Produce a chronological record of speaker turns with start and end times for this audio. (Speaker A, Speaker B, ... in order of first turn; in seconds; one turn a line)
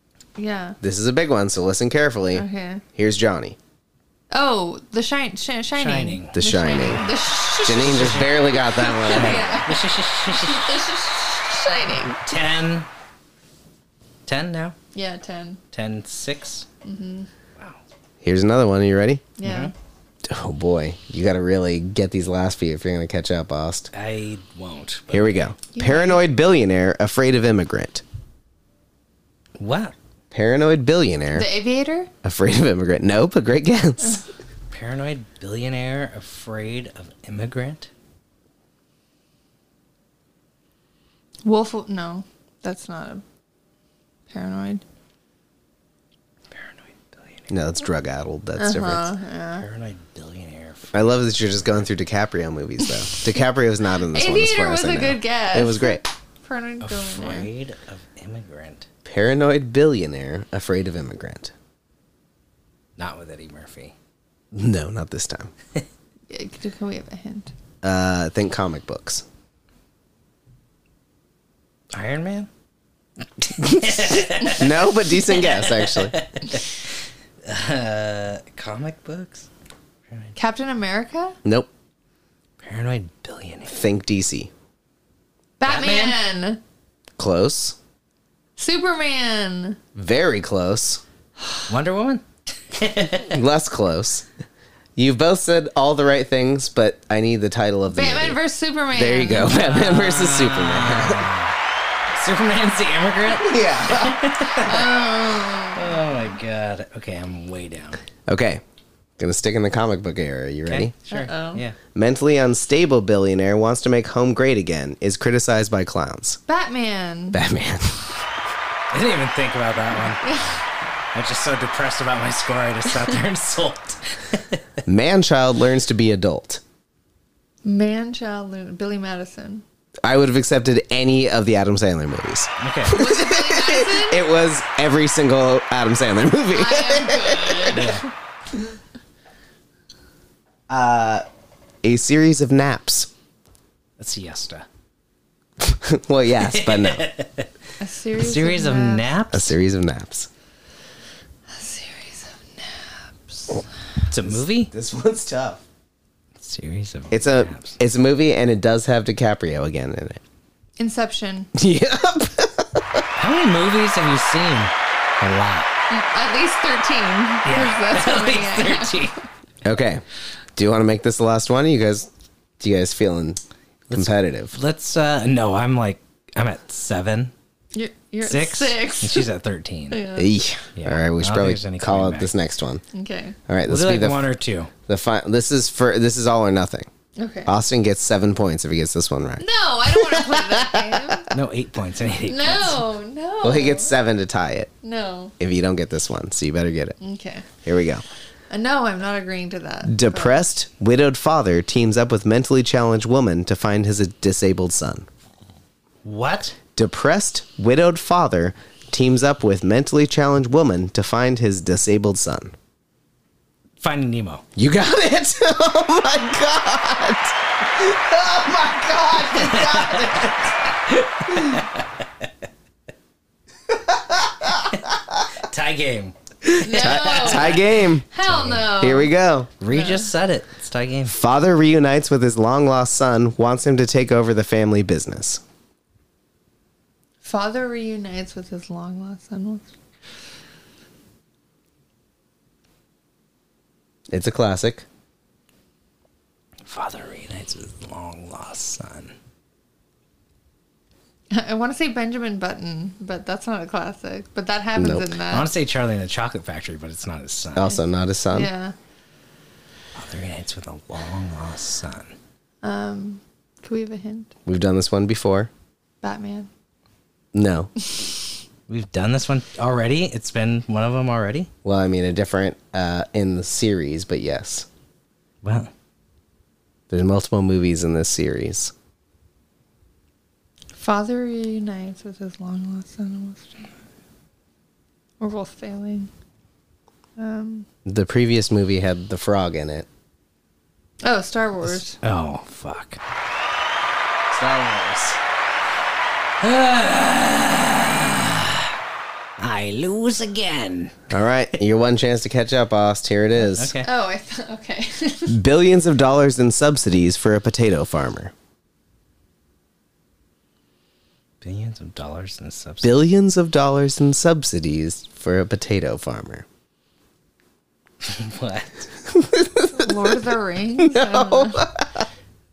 Speaker A: 0.3-0.8
Speaker B: 0.8-3.6
Speaker A: 2.3-2.8
Speaker A: 4.3-12.2
Speaker C: 5.7-7.1
Speaker B: 6.3-7.0
Speaker B: 7.6-9.6
Speaker C: 7.8-8.3
Speaker C: 9.1-10.8
Speaker C: 12.2-12.9
Speaker C: 14.2-14.8
Speaker A: 14.9-15.6
Speaker C: 15.7-16.6
Speaker A: 16.8-17.3
Speaker B: 18.2-19.2
Speaker A: 19.4-19.7
Speaker C: 19.4-19.7
Speaker B: 20.2-23.9
Speaker C: 23.9-25.5
Speaker B: 25.1-28.0
Speaker A: 25.7-26.2
Speaker C: 29.6-29.9
Speaker B: 30.3-31.5
Speaker A: 31.3-32.1
Speaker B: 32.2-34.2
Speaker C: 34.7-37.9
Speaker A: 41.4-43.2
Speaker A: 44.3-44.8
Speaker C: 46.5-47.5
Speaker B: 47.5-49.1
Speaker A: 48.6-49.7
Speaker C: 49.6-51.7
Speaker B: 50.9-56.0
Speaker A: 52.9-53.2
Speaker A: 54.1-57.5
Speaker C: 56.8-58.9
Speaker B: 59.0-61.5
Speaker C: 63.0-63.9
Speaker B: 64.5-65.5
Speaker A: 66.3-67.5
Speaker B: 67.8-69.2
Speaker C: 71.9-72.5
Speaker C: 73.4-76.8
Speaker B: 73.5-76.2
Speaker C: 77.4-79.5
Speaker C: 80.1-80.3
Speaker A: 80.3-81.4
Speaker B: 81.4-81.7
Speaker C: 82.6-83.8
Speaker B: 83.7-84.5
Speaker A: 85.6-86.6
Speaker C: 85.6-86.2
Speaker B: 87.2-87.8
Speaker A: 88.6-89.8
Speaker B: 89.9-91.0
Speaker C: 91.7-93.4
Speaker B: 93.3-94.2
Speaker B: 95.0-98.4
Speaker A: 97.9-99.5
Speaker B: 98.9-101.3
Speaker C: 99.4-101.5
Speaker C: 102.1-108.0
Speaker B: 103.3-104.3
Speaker A: 104.6-106.0
Speaker B: 108.3-108.6
Speaker B: 109.2-110.9
Speaker C: 110.7-111.8
Speaker A: 111.1-111.6
Speaker B: 111.9-116.4
Speaker A: 116.5-117.4
Speaker B: 117.3-118.2
Speaker C: 118.9-120.6
Speaker C: 121.1-124.6
Speaker B: 124.8-126.6
Speaker A: 127.6-129.6
Speaker B: 130.0-138.0
Speaker C: 132.6-133.0
Speaker A: 132.9-134.2
Speaker A: 136.5-138.1
Speaker C: 137.7-138.0
Speaker B: 140.7-141.2
Speaker B: 141.8-143.1
Speaker C: 144.0-144.7
Speaker B: 145.6-147.1
Speaker C: 146.4-147.5
Speaker A: 147.8-149.1
Speaker C: 148.2-149.5
Speaker B: 149.3-150.3
Speaker A: 151.5-153.6
Speaker C: 154.1-154.7
Speaker B: 154.2-155.6
Speaker C: 156.4-157.8
Speaker B: 157.1-160.2
Speaker A: 160.8-161.5
Speaker B: 161.5-163.0
Speaker C: 163.2-165.7
Speaker A: 165.9-169.1
Speaker C: 167.4-169.2
Speaker B: 169.6-170.0
Speaker B: 170.6-173.4
Speaker C: 173.9-177.3
Speaker B: 173.9-174.5
Speaker A: 177.7-179.3
Speaker C: 178.2-180.1
Speaker A: 179.9-180.3
Speaker B: 180.2-182.8
Speaker C: 180.8-182.3
Speaker A: 182.9-183.3
Speaker B: 183.5-184.3
Speaker C: 183.7-184.7
Speaker B: 184.9-186.9
Speaker A: 187.2-187.5
Speaker B: 187.4-191.3
Speaker A: 189.4-191.3
Speaker C: 191.3-192.8
Speaker A: 192.2-194.0
Speaker B: 193.4-194.7
Speaker A: 194.8-195.3
Speaker B: 195.4-197.0
Speaker A: 197.0-197.4
Speaker B: 197.6-198.0
Speaker A: 198.5-200.4
Speaker B: 199.8-205.1
Speaker C: 206.0-206.6
Speaker B: 206.7-212.5
Speaker C: 213.8-214.4
Speaker B: 214.6-220.4
Speaker C: 219.3-221.8
Speaker B: 223.7-224.6
Speaker C: 225.4-228.8
Speaker A: 226.6-229.1
Speaker B: 226.7-228.0
Speaker B: 228.7-229.5
Speaker C: 229.6-231.2
Speaker A: 229.7-230.1
Speaker B: 231.1-235.4
Speaker A: 237.2-239.7
Speaker B: 244.1-244.8
Speaker C: 246.7-249.1
Speaker A: 251.3-255.5
Speaker B: 254.8-255.1
Speaker C: 255.3-257.8
Speaker B: 257.5-258.5
Speaker A: 258.3-258.7
Speaker C: 259.9-262.1
Speaker A: 262.6-264.3
Speaker B: 264.4-265.5
Speaker A: 266.0-266.5
Speaker B: 267.3-267.7
Speaker C: 268.7-271.5
Speaker B: 271.6-274.7
Speaker C: 275.4-275.7
Speaker B: 276.9-278.7
Speaker A: 280.8-283.7
Speaker A: 285.2-286.1
Speaker A: 287.2-287.7
Speaker B: 287.8-289.9
Speaker A: 291.0-292.0
Speaker C: 292.0-293.0
Speaker B: 294.3-295.2
Speaker C: 296.4-298.7
Speaker C: 299.4-301.1
Speaker B: 301.1-303.7
Speaker C: 303.4-303.9
Speaker A: 303.8-305.4
Speaker B: 305.3-308.3
Speaker C: 311.4-313.0
Speaker B: 312.8-316.4
Speaker C: 318.0-318.8
Speaker B: 319.1-320.2
Speaker A: 319.8-321.6
Speaker B: 320.8-322.0